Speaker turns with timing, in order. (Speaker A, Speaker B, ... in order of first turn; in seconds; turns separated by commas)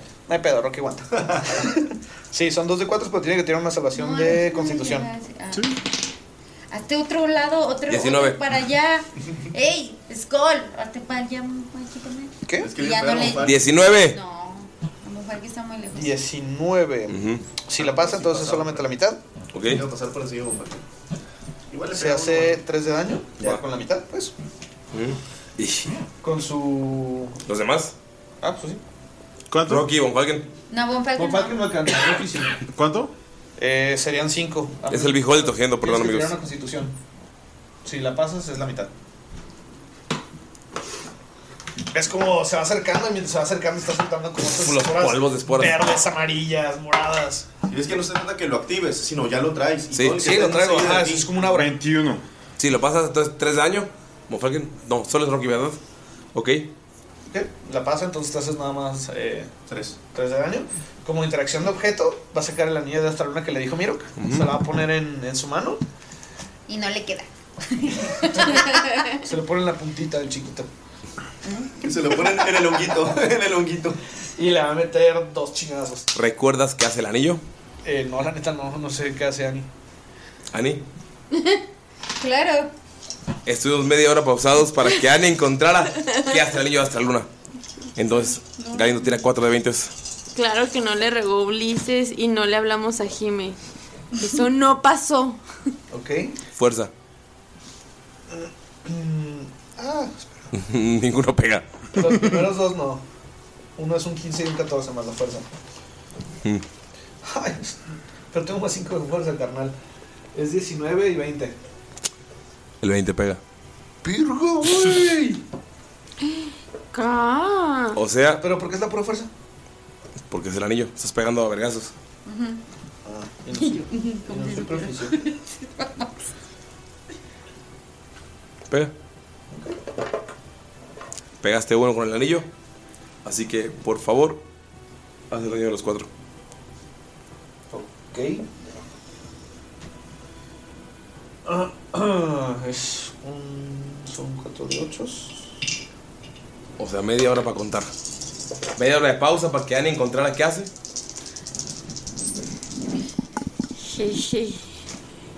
Speaker A: 0.3-5.1, Speaker B: 3.9-5.8, Speaker C: 5.5-5.8, Speaker B: 6.7-16.2, Speaker D: 7.9-8.4, Speaker A: 12.5-12.7, Speaker E: 12.6-13.7, Speaker D: 13.4-14.2, Speaker A: 15.9-19.2, Speaker D: 17.1-17.4, Speaker E: 17.8-18.9, Speaker D: 19.5-19.8, Speaker E: 19.6-20.8, Speaker E: 21.7-22.6, Speaker A: 21.9-24.3, Speaker D: 24.9-25.9, Speaker A: 26.2-27.4, Speaker D: 27.4-27.9, Speaker A: 28.4-28.8, Speaker C: 29.5-29.9, Speaker D: 29.6-30.5, Speaker B: 30.7-31.6, Speaker A: 31.1-32.6, Speaker C: 32.7-33.1, Speaker A: 33.6-36.9, Speaker D: 34.9-36.3, Speaker A: 37.8-38.9, Speaker A: 41.9-47.5, Speaker D: 44.4-45.8, Speaker E: 47.7-51.3, Speaker D: 49.9-50.2, Speaker A: 50.2-51.7, Speaker C: 51.5-52.2, Speaker D: 52.6-55.8, Speaker D: 56.3-56.7, Speaker A: 57.3-59.5, Speaker E: 59.7-60.0, Speaker A: 60.1-65.8, Speaker D: 64.2-64.5, Speaker B: 66.7-69.2, Speaker A: 68.4-68.6, Speaker A: 69.2-70.7, Speaker E: 71.8-74.0, Speaker A: 74.4-76.1, Speaker D: 76.1-77.4, Speaker A: 77.8-79.7, Speaker D: 80.5-80.8, Speaker B: 81.3-81.6, Speaker B: 82.2-82.7, Speaker D: 83.5-87.3, Speaker D: 88.0-89.9, Speaker B: 88.6-89.1, Speaker F: 90.3-93.6, Speaker F: 94.1-95.4, Speaker A: 95.9-96.3, Speaker D: 96.5-96.9, Speaker A: 98.3-100.5, Speaker D: 100.5-101.7, Speaker A: 101.9-103.0, Speaker A: 103.8-105.4, Speaker A: 107.2-109.7, Speaker A: 110.3-111.5, Speaker D: 112.8-113.4, Speaker A: 114.0-115.4, Speaker F: 116.3-118.0, Speaker D: 117.9-118.4, Speaker A: 118.3-119.3, Speaker D: 120.3-121.9, Speaker B: 122.2-122.6, Speaker A: 123.0-125.2, Speaker B: 123.5-126.0, Speaker A: 129.5-129.8, Speaker D: 131.4-132.4, Speaker D: 133.2-134.4, Speaker D: 135.3-136.1, Speaker A: 137.7-138.4, Speaker A: 141.4-145.5, Speaker D: 146.8-147.9, Speaker D: 148.8-150.7, Speaker F: 153.8-154.6